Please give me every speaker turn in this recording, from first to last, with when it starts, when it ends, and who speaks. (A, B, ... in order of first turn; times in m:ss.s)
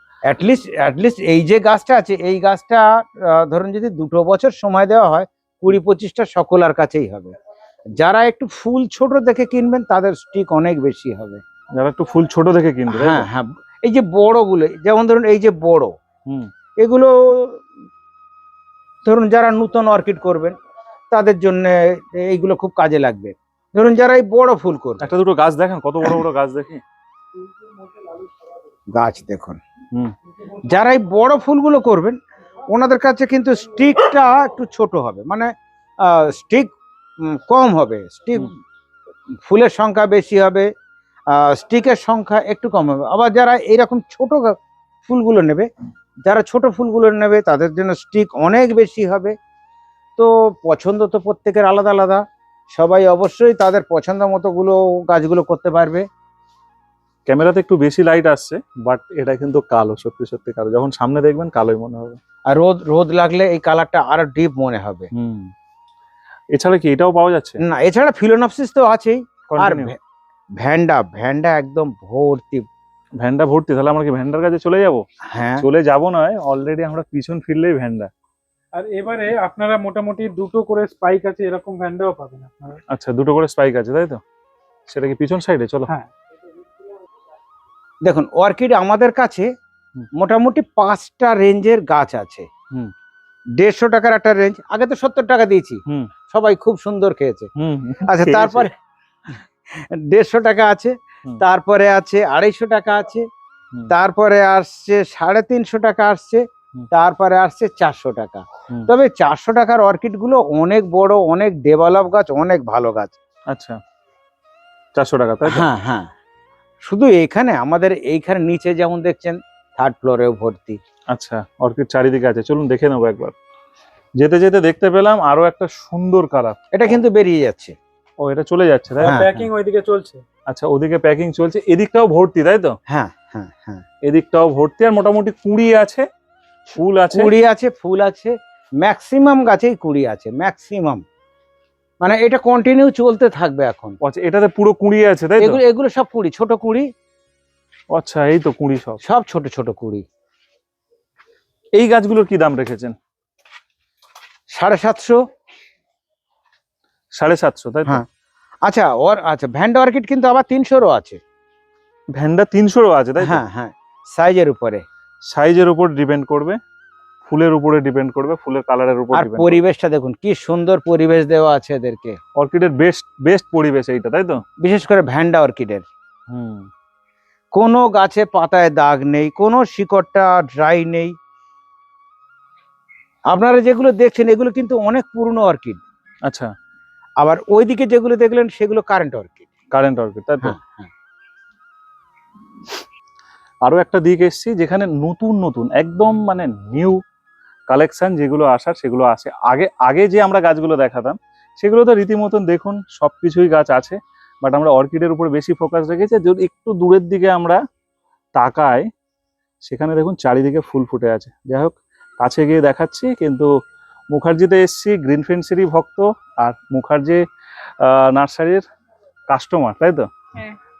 0:00.3-0:07.3 A
0:08.0-0:11.4 A
0:11.8-0:13.3 B
0:12.9-0:15.9 A
0:16.8-0:17.6 A
0:19.0-0:20.5 A
0:21.1-0:25.1 A
0:25.0-0:26.8 B
0:27.8-0:28.3 C
0:28.9-0:29.6 A
0:30.6-0:35.5 A
0:36.0-0:38.6 A
0:39.4-0:40.7 A
0:41.3-0:45.7 A
0:46.3-0:49.3 A
0:50.2-0:56.0 A
0:57.3-1:02.2 B
1:02.5-1:05.1 A
1:05.1-1:05.5 B
1:06.5-1:07.6 B
1:07.6-1:10.0 A
1:09.5-1:09.9 B
1:10.6-1:12.7 A
1:13.2-1:15.0 B
1:15.3-1:15.7 A
1:15.6-1:18.1 B
1:18.8-1:22.8 C
1:22.9-1:24.2 B
1:24.9-1:25.9 B
1:28.0-1:29.5 A
1:30.2-1:32.5 A
1:33.6-1:37.5 A
1:37.6-1:38.7 B
1:38.1-1:38.7 A
1:39.7-1:43.2 A
1:43.9-1:53.2 A
1:53.5-1:53.8 B
1:55.0-1:55.6 B
1:55.4-1:56.1 A
1:56.8-2:00.8 A
2:01.1-2:03.3 B
2:04.2-2:06.6 B
2:06.7-2:07.8 A
2:08.2-2:09.5 B
2:09.0-2:10.2 C
2:10.5-2:12.8 B
2:12.9-2:13.8 A
2:14.0-2:16.1 B
2:16.7-2:17.3 B
2:17.1-2:21.0 A
2:22.0-2:24.0 A
2:24.0-2:25.6 B
2:25.4-2:26.9 A
2:27.9-2:29.0 B
2:29.0-2:30.0 A
2:31.8-2:33.0 B
2:34.5-2:35.2 A
2:37.2-2:38.0 B
2:38.6-2:41.2 A
2:42.2-2:43.4 B
2:43.2-2:44.8 A
2:45.3-2:46.6 B
2:47.2-2:49.6 B
2:49.1-2:52.2 A
2:52.4-2:54.4 B
2:54.6-2:55.8 A
2:56.3-2:56.7 B
2:57.5-3:01.1 A
3:03.3-3:05.8 A
3:07.2-3:09.5 A
3:09.7-3:10.5 B
3:10.4-3:10.9 A
3:13.6-3:17.0 B
3:17.7-3:27.6 B
3:28.4-3:28.9 B
3:29.6-3:33.5 B
3:34.1-3:37.2 B
3:37.8-3:38.6 B
3:39.3-3:40.1 B